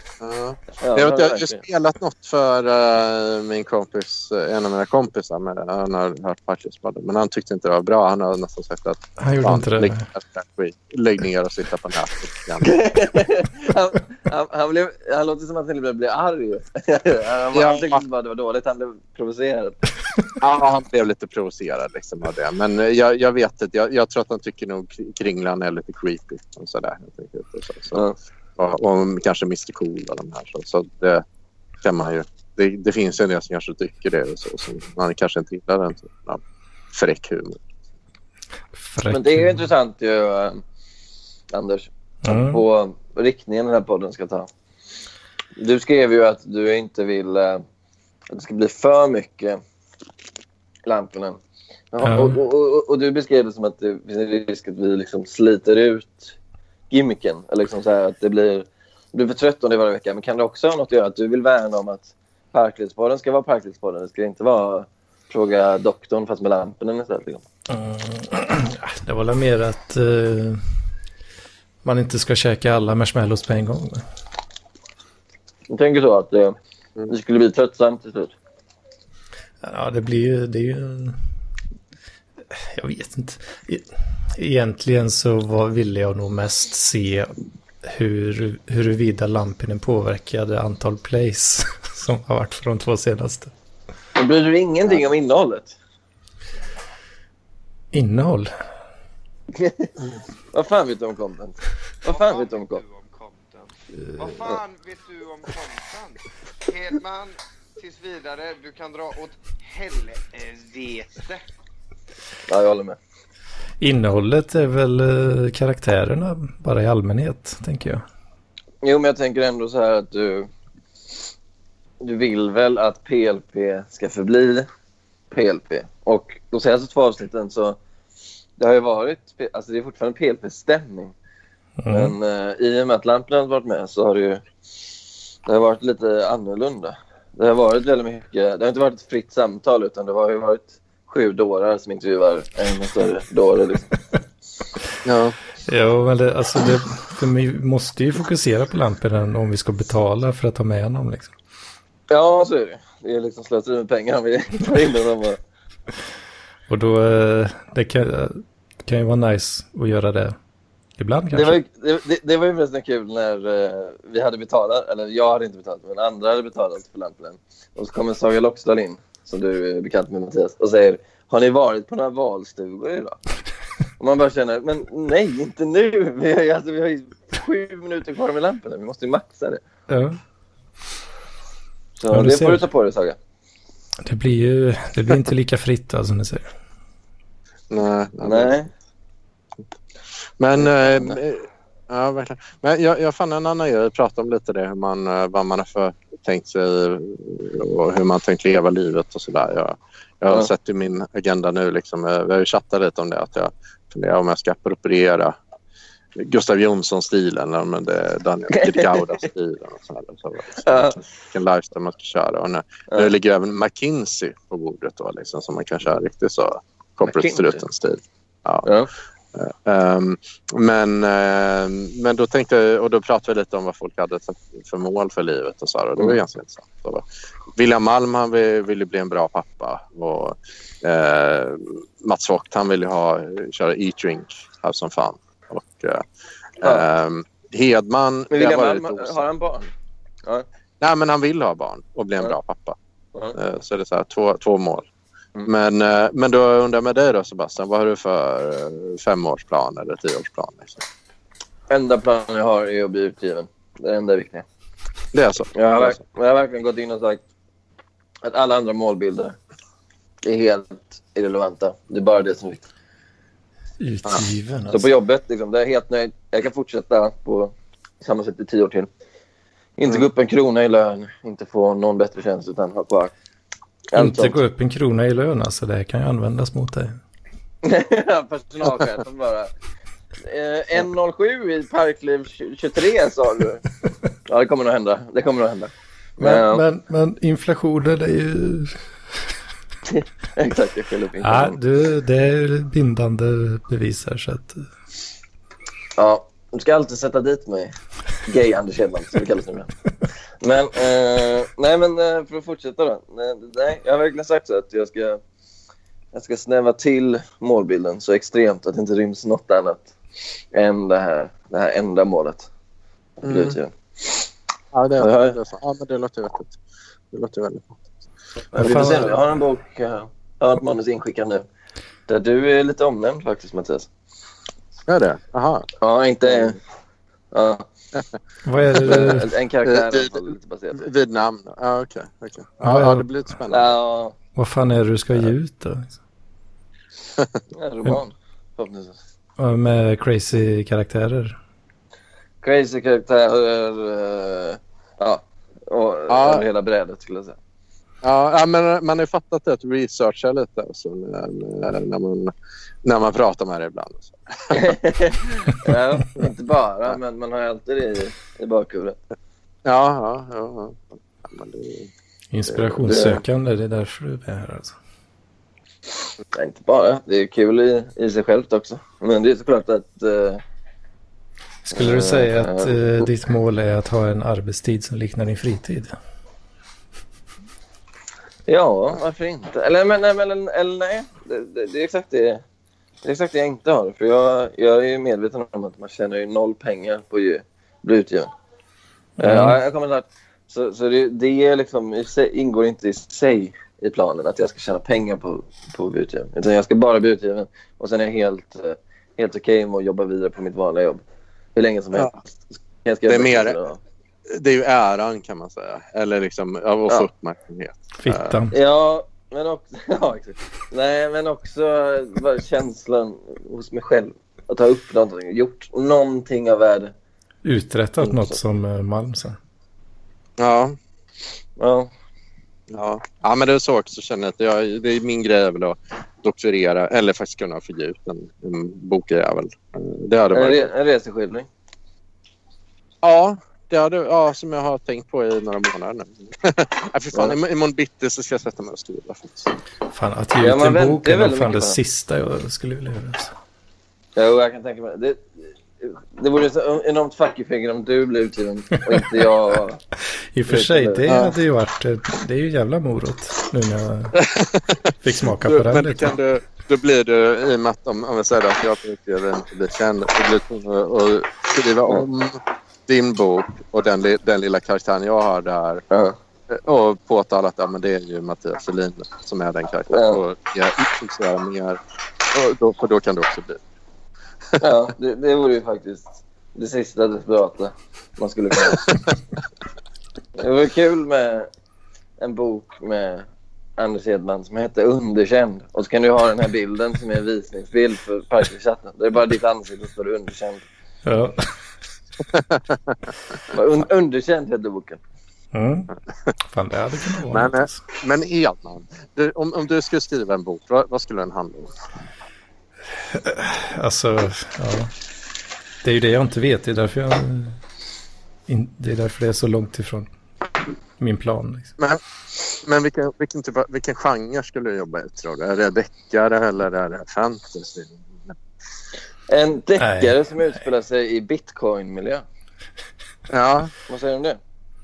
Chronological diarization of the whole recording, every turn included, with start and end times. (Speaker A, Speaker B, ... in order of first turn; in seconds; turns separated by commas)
Speaker A: 0.2-12.7, Speaker B: 0.8-1.6, Speaker C: 9.2-10.1, Speaker B: 12.6-19.8, Speaker A: 17.5-18.0, Speaker A: 20.4-28.0, Speaker A: 28.6-31.2, Speaker A: 31.8-36.4, Speaker A: 36.9-37.6, Speaker C: 38.8-39.7, Speaker B: 39.1-40.6, Speaker B: 41.5-44.5, Speaker C: 42.2-42.6, Speaker B: 45.6-47.6, Speaker B: 48.3-49.6, Speaker B: 50.9-51.4, Speaker B: 51.9-56.3, Speaker C: 52.0-52.4, Speaker B: 56.9-67.4, Speaker C: 67.7-70.6, Speaker C: 71.8-74.0, Speaker B: 75.7-76.5, Speaker B: 77.1-78.3, Speaker C: 79.6-81.2, Speaker C: 82.5-87.3, Speaker C: 87.8-93.5, Speaker B: 94.2-95.7, Speaker C: 97.9-98.5, Speaker B: 99.6-99.9, Speaker B: 100.5-102.8, Speaker D: 102.0-111.4, Speaker B: 112.5-113.0, Speaker C: 113.8-118.0, Speaker B: 118.8-120.5, Speaker B: 122.0-124.7, Speaker B: 125.3-127.8, Speaker B: 128.6-131.1, Speaker C: 131.8-132.1, Speaker B: 131.9-134.4, Speaker B: 135.4-143.9, Speaker A: 145.0-145.3, Speaker C: 145.7-151.3, Speaker B: 152.1-155.4, Speaker C: 156.7-160.3, Speaker C: 161.0-161.6, Speaker B: 161.3-173.2, Speaker B: 174.0-179.6, Speaker C: 179.9-180.2, Speaker B: 181.9-183.2, Speaker C: 182.1-182.7, Speaker C: 184.1-186.5, Speaker A: 187.7-188.5, Speaker B: 188.2-188.7, Speaker A: 190.4-205.3, Speaker A: 206.2-218.7, Speaker B: 208.5-208.8, Speaker B: 210.6-211.0, Speaker B: 217.1-217.6, Speaker B: 218.6-218.9, Speaker A: 219.3-227.0, Speaker A: 227.6-236.0, Speaker A: 236.6-239.2, Speaker B: 238.3-239.7, Speaker A: 240.8-242.8, Speaker A: 243.3-244.8, Speaker A: 245.5-250.8, Speaker B: 251.7-254.4, Speaker A: 255.1-256.0, Speaker B: 255.5-257.2, Speaker B: 258.2-259.4, Speaker B: 260.2-262.6, Speaker C: 263.8-264.9, Speaker B: 264.7-268.9, Speaker B: 269.8-273.1, Speaker B: 273.9-274.4, Speaker C: 273.9-277.0, Speaker B: 277.6-279.5, Speaker B: 280.2-283.6, Speaker B: 284.3-286.6, Speaker C: 286.2-288.8, Speaker B: 289.9-291.6, Speaker C: 291.2-294.6, Speaker B: 296.0-297.7, Speaker B: 298.2-299.7, Speaker B: 300.4-305.2, Speaker B: 306.1-309.9, Speaker B: 310.5-312.5, Speaker A: 313.2-313.6, Speaker B: 313.2-314.2, Speaker A: 314.7-316.5, Speaker B: 315.0-315.4, Speaker A: 317.1-317.8, Speaker C: 318.5-319.2, Speaker B: 318.5-321.4, Speaker B: 322.1-323.9, Speaker A: 324.9-325.6, Speaker B: 325.8-326.6, Speaker B: 327.3-327.6, Speaker C: 328.4-329.3, Speaker B: 328.8-330.8, Speaker A: 329.6-330.2, Speaker A: 330.7-333.8, Speaker C: 332.6-333.0, Speaker B: 333.5-334.1, Speaker C: 334.3-336.0, Speaker A: 337.2-337.4, Speaker B: 337.5-339.0, Speaker C: 339.4-341.4, Speaker B: 342.4-347.4, Speaker A: 346.1-346.4, Speaker A: 348.0-352.3, Speaker A: 352.8-354.7, Speaker B: 354.5-358.9, Speaker A: 359.6-361.9, Speaker C: 362.3-364.8, Speaker A: 362.5-363.2, Speaker B: 362.9-363.2, Speaker B: 366.3-370.4, Speaker C: 371.6-375.9, Speaker B: 371.7-372.7, Speaker B: 378.5-382.4, Speaker B: 383.0-388.3, Speaker C: 389.2-389.6, Speaker B: 389.2-401.0, Speaker B: 401.5-402.2, Speaker B: 402.8-403.8, Speaker A: 403.1-403.6, Speaker A: 404.3-408.3, Speaker C: 408.0-408.6, Speaker B: 408.5-416.9, Speaker C: 417.4-419.4, Speaker B: 418.0-418.4, Speaker A: 420.4-420.8, Speaker B: 421.6-421.9, Speaker A: 422.7-430.7, Speaker B: 430.3-431.5, Speaker A: 433.0-439.5, Speaker C: 439.9-443.4, Speaker B: 440.4-441.8, Speaker B: 444.1-449.8, Speaker C: 450.3-454.2, Speaker B: 450.5-451.1, Speaker A: 451.1-451.4, Speaker A: 454.2-454.8, Speaker C: 455.0-456.1, Speaker A: 455.4-465.8, Speaker B: 465.9-466.2, Speaker A: 466.5-473.6, Speaker B: 469.9-470.2, Speaker B: 474.6-478.8, Speaker A: 478.6-479.0, Speaker B: 480.4-481.5, Speaker B: 482.2-483.2, Speaker B: 483.8-490.6, Speaker C: 491.1-491.5, Speaker A: 492.3-492.6, Speaker B: 493.5-495.0, Speaker C: 495.5-495.9, Speaker C: 496.5-497.8, Speaker A: 497.3-501.7, Speaker C: 503.1-504.9, Speaker C: 505.8-507.6, Speaker C: 508.5-510.1, Speaker C: 511.0-511.7, Speaker A: 512.6-518.3, Speaker B: 519.3-522.2, Speaker C: 519.8-520.2, Speaker A: 523.3-523.7, Speaker B: 523.9-524.4